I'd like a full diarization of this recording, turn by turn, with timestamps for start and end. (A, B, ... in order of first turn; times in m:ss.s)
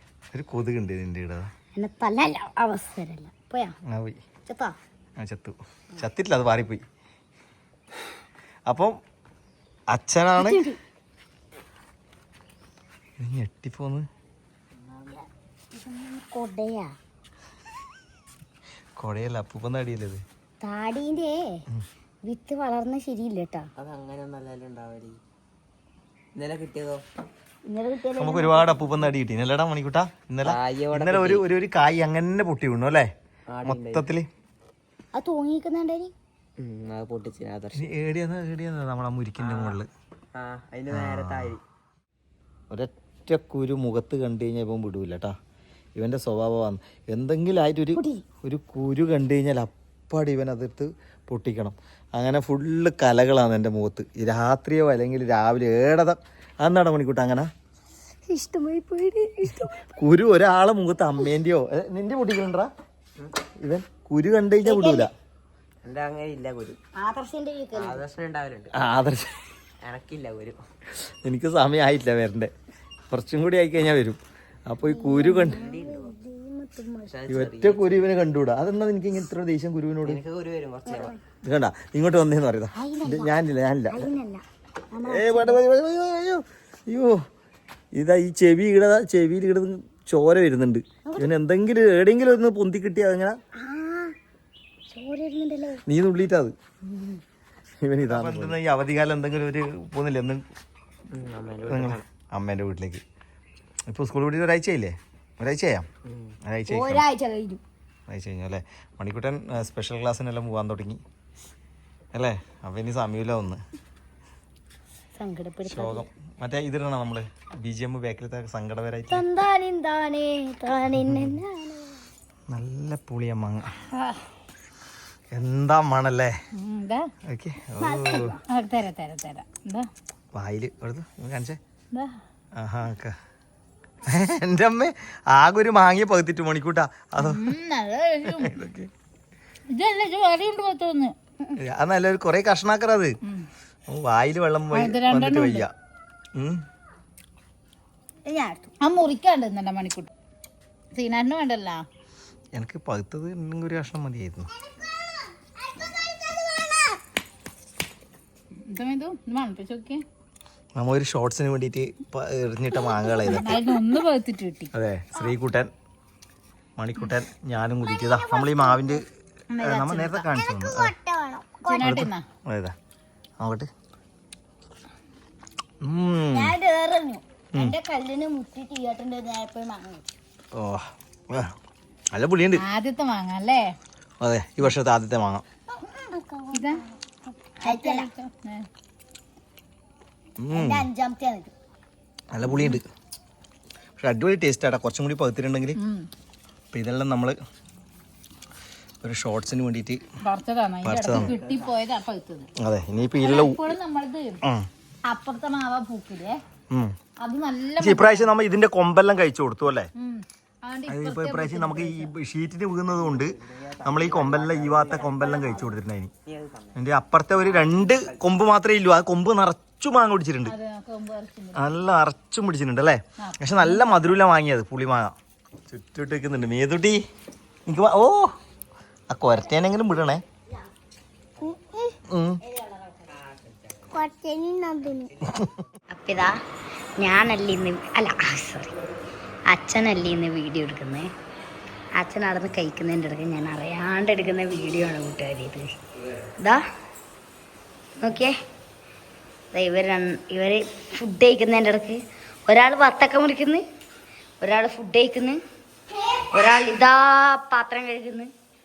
0:00.3-0:01.5 A
0:01.7-0:03.7 B
0:03.9-0:04.2 A
0:04.5-0:04.8 B
0:05.2-0:06.8 A
0:08.7-0:09.0 A
0:09.9-0:10.6 A
0:10.4-0:10.8 B
0:13.2-0:14.1 A
0:15.7-0:16.9 B
0:19.0-0:20.2 A
0:20.6-0:21.6 B
0:22.2-0:23.7 B
0:23.8-0:25.2 C
0:26.3-0:27.0 C
0:27.6-0:29.0 B
0:28.2-0:33.1 A
0:30.4-0:31.5 C
0:33.5-0:34.1 C
0:33.6-0:34.3 A
0:35.1-0:36.1 B
0:36.6-0:37.9 C
0:37.7-0:39.9 A
0:39.4-0:39.8 C
0:40.4-0:41.6 C
0:40.9-0:41.6 A
0:42.7-0:45.3 A
0:46.0-0:57.5 A
0:47.9-0:48.2 B
0:58.2-0:59.9 B
1:00.0-1:02.7 A
1:03.6-1:05.1 A
1:04.6-1:05.1 B
1:05.8-1:06.8 C
1:06.9-1:08.0 B
1:07.7-1:08.7 C
1:08.7-1:09.4 A
1:09.8-1:10.6 C
1:10.9-1:12.5 A
1:13.1-1:15.6 A
1:14.8-1:17.2 B
1:15.5-1:16.1 C
1:15.5-1:15.8 D
1:17.1-1:18.1 C
1:17.3-1:20.2 A
1:20.0-1:21.2 C
1:20.8-1:21.1 D
1:21.4-1:24.1 A
1:22.7-1:23.3 B
1:23.9-1:25.6 B
1:25.0-1:27.2 A
1:27.9-1:33.4 A
1:31.0-1:31.3 B
1:33.6-1:34.1 B
1:34.9-1:35.8 B
1:35.9-1:36.5 A
1:36.8-1:37.2 B
1:37.8-1:40.4 A
1:38.1-1:38.6 C
1:41.1-1:42.0 C
1:41.6-1:43.0 A
1:43.9-1:45.9 A
1:46.0-1:46.3 C
1:46.4-1:47.0 A
1:46.7-1:47.6 B
1:48.1-1:51.0 A
1:52.1-1:53.6 A
1:55.2-1:56.1 B
1:55.6-1:59.2 A
1:59.1-2:02.0 B
2:01.1-2:01.4 A
2:02.5-2:03.8 A
2:03.9-2:04.2 E
2:05.3-2:06.4 A
2:06.6-2:07.1 E
2:07.2-2:08.4 A
2:07.8-2:08.3 B
2:08.2-2:09.9 E
2:10.3-2:11.6 A
2:11.9-2:12.2 E
2:12.6-2:13.2 A
2:14.0-2:17.5 A
2:17.2-2:18.6 E
2:18.2-2:18.9 A
2:19.7-2:21.1 E
2:21.6-2:23.2 A
2:23.9-2:25.7 A
2:24.7-2:25.6 E
2:26.3-2:26.6 A
2:28.2-2:28.7 B
2:28.8-2:30.1 E
2:30.9-2:31.8 E
2:32.6-2:34.5 A
2:34.6-2:37.0 D
2:38.6-2:40.0 E
2:40.8-2:43.7 A
2:43.2-2:44.7 E
2:44.7-2:45.7 A
2:46.8-2:49.0 A
2:47.8-2:48.8 D
2:49.5-2:50.3 E
2:49.6-2:50.9 A
2:50.4-2:51.9 D
2:51.6-2:52.2 E
2:51.8-2:52.7 A
2:53.4-2:53.7 A
2:55.8-2:56.5 A
2:56.3-3:00.1 B
3:00.5-3:01.5 A
3:02.1-3:02.6 A
3:02.6-3:03.7 E
3:04.2-3:05.4 A
3:05.7-3:06.7 B
3:06.5-3:06.8 E
3:07.3-3:08.1 B
3:07.6-3:08.7 E
3:10.4-3:10.9 A
3:10.5-3:11.5 B
3:12.3-3:12.8 A
3:12.5-3:12.8 E
3:14.0-3:15.8 A
3:15.8-3:16.1 E
3:16.7-3:17.4 A
3:19.0-3:20.0 A
3:20.2-3:22.5 E
3:20.8-3:21.4 A
3:21.2-3:21.7 C
3:22.6-3:23.8 A
3:23.2-3:24.4 E
3:25.0-3:26.4 E
3:27.2-3:28.3 E
3:27.8-3:29.9 A
3:30.0-3:32.1 E
3:30.9-3:36.1 A
3:32.9-3:35.7 C
3:36.2-3:36.8 C
3:36.7-3:40.6 A
3:37.3-3:38.4 C
3:40.4-3:41.7 E
3:41.5-3:45.2 A
3:43.2-3:43.9 E
3:45.7-3:47.0 A
3:47.7-3:48.3 A
3:49.1-3:50.2 A
3:51.4-3:52.0 D
3:52.1-3:52.4 A
3:52.4-3:53.0 B
3:53.6-3:53.8 C
3:53.9-3:55.1 D
3:55.9-3:56.4 B
3:57.0-3:58.7 B
3:59.5-4:01.1 B
4:02.0-4:05.7 B
4:08.0-4:08.4 B
4:09.5-4:13.6 B
4:14.4-4:15.4 B
4:16.2-4:18.3 B